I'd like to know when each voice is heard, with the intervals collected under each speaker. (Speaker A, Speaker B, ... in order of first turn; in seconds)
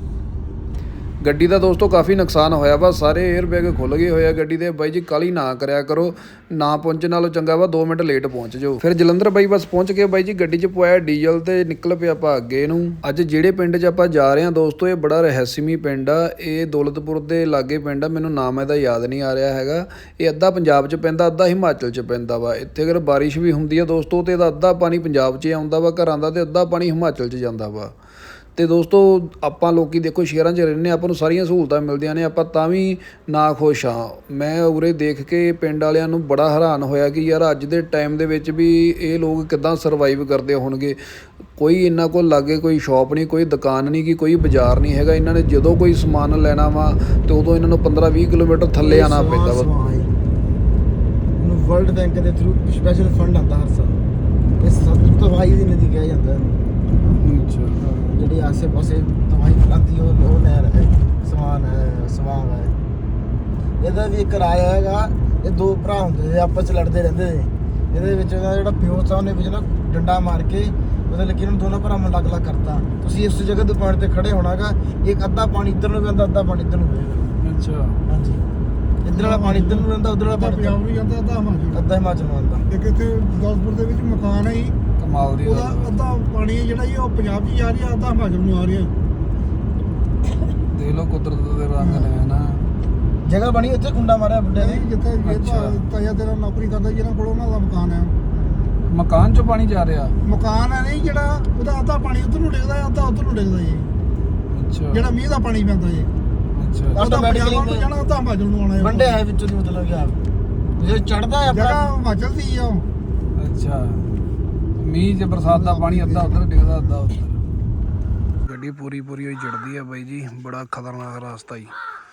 Speaker A: 1.2-27.9, 28.6-49.7, 57.2-57.8, 77.4-78.0, 85.0-86.2, 90.7-92.6, 95.2-95.9, 98.9-100.2, 104.5-105.2, 106.5-107.0, 113.4-114.1, 114.8-117.4, 118.4-121.8
Speaker B: 48.8-50.1, 51.4-54.0, 54.6-56.6, 57.8-62.8, 63.8-77.4, 78.1-78.4, 79.0-80.9, 81.7-82.7, 91.8-92.1, 93.2-94.9, 98.3-98.8, 106.9-108.0, 108.8-110.2, 110.8-112.0
Speaker C: 83.0-84.7, 86.3-88.9, 96.0-98.1, 100.4-103.8, 105.3-106.0, 108.1-108.7, 112.1-112.8